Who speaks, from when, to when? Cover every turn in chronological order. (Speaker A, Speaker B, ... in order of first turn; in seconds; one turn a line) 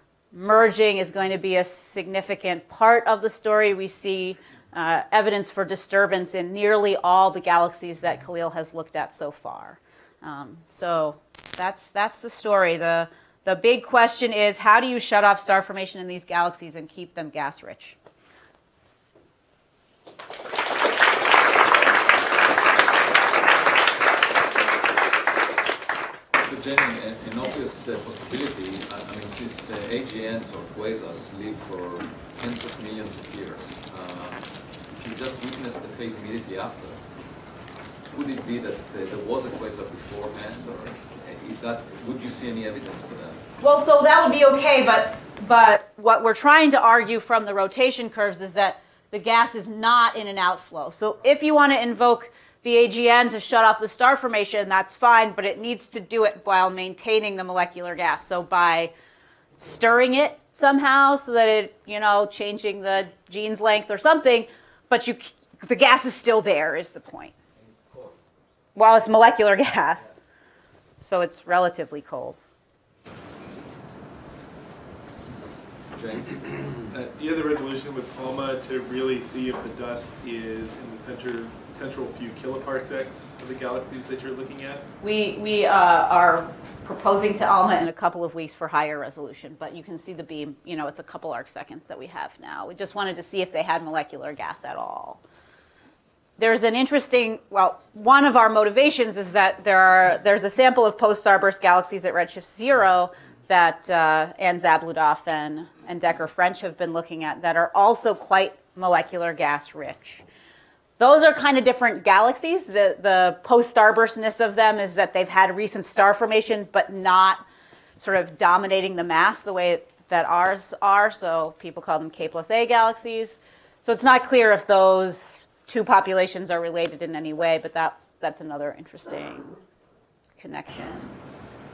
Speaker A: 0.3-18.0
Speaker B: 26.4-37.0
Speaker B: 38.1-43.5
Speaker A: 43.6-58.9
Speaker A: 59.6-67.3
Speaker A: 68.8-70.1
Speaker A: 71.0-72.4
Speaker B: 75.9-76.7
Speaker C: 76.9-84.8
Speaker A: 85.0-95.2
Speaker A: 96.4-110.2
Speaker A: 111.0-117.4
Speaker A: 118.0-129.6
Speaker A: 130.4-131.1